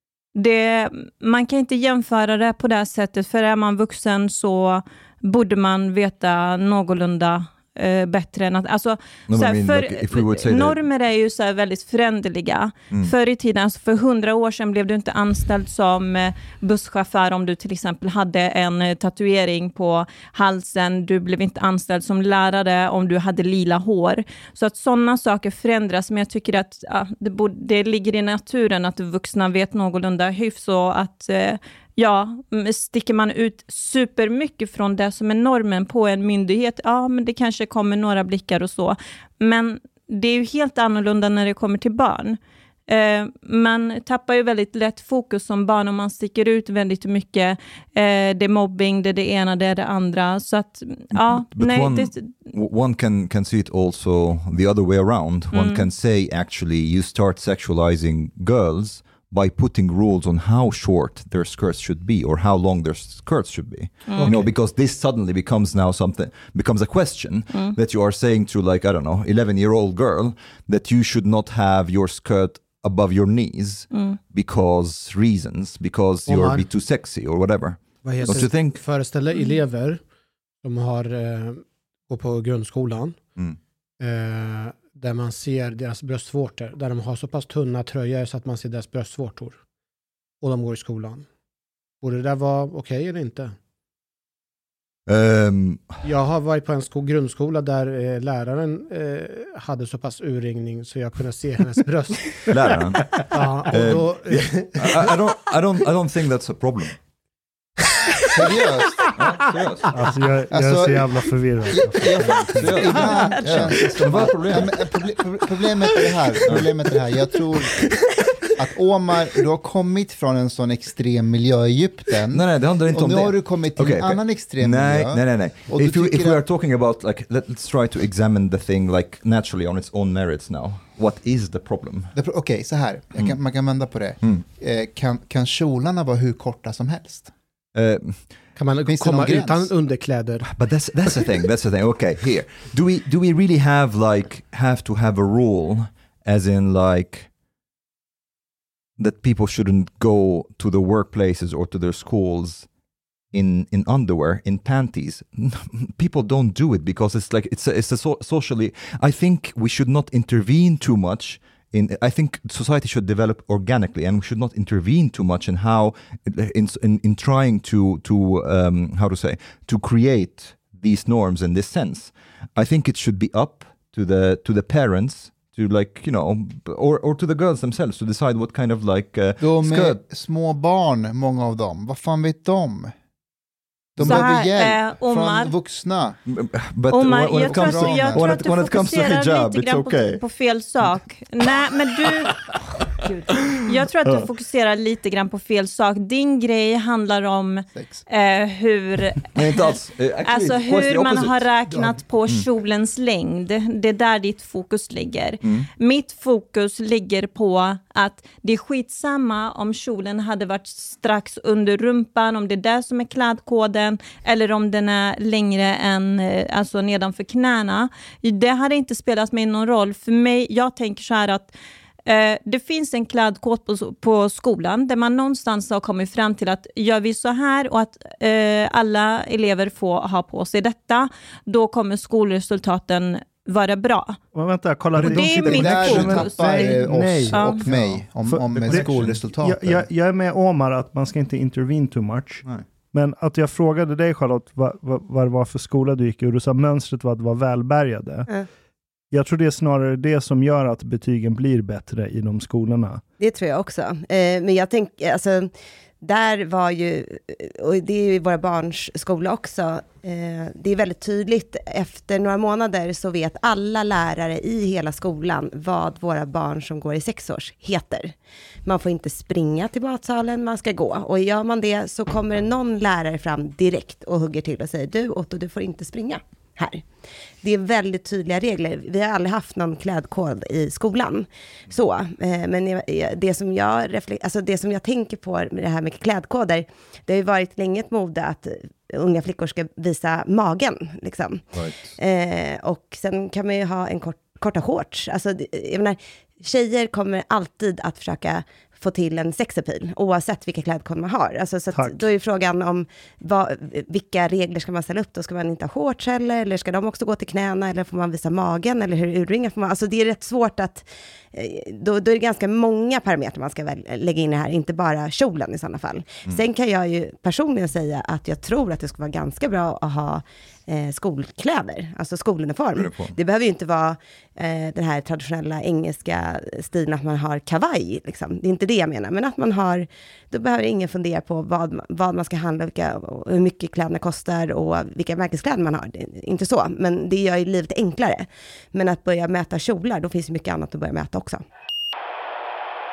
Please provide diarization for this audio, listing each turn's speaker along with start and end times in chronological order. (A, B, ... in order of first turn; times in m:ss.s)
0:00.4-0:52.3 A
0:09.3-0:10.8 B
0:51.1-1:18.9 B
0:55.5-0:55.8 A
1:04.1-1:04.3 A
1:04.2-1:04.5 C
1:13.9-1:14.2 A
1:16.3-1:16.6 C
1:18.0-1:20.0 C
1:20.6-1:23.3 C
1:24.0-1:29.6 C
1:30.4-1:31.3 C
1:32.0-1:33.6 C
1:35.1-1:36.1 B
1:36.0-1:42.6 C
1:42.5-1:47.0 B
1:43.3-1:45.2 C
1:48.3-1:49.1 D
1:49.2-1:49.9 B
1:49.9-1:53.0 E
1:50.5-2:06.4 D
1:52.6-1:54.8 B
1:52.8-1:53.7 F
2:02.3-2:12.2 B
2:12.2-2:17.3 D
2:17.8-2:18.5 B
2:18.6-2:20.6 C
2:18.9-2:19.7 D
2:20.4-2:27.3 B
2:29.0-2:32.7 B
2:33.3-3:00.0 B
2:59.4-3:02.9 D
3:04.0-3:06.2 D
3:04.0-3:04.3 B
3:04.0-3:05.5 A
3:06.3-3:10.2 B
3:06.9-3:12.4 A
3:07.4-3:08.4 D
3:13.1-3:19.7 A
3:17.7-3:18.0 D
3:19.4-3:21.5 B
3:20.3-3:41.5 A
3:25.4-3:25.7 B
3:42.0-3:54.2 A
3:54.3-4:08.3 E
3:55.0-3:59.9 D
3:55.1-3:57.6 A
3:58.6-3:59.1 B
4:09.1-4:13.0 E
4:13.2-4:28.1 F
4:28.6-4:36.8 F
4:37.4-5:41.4 F
4:51.5-4:52.0 B
5:01.7-5:02.0 E
5:22.8-5:23.2 B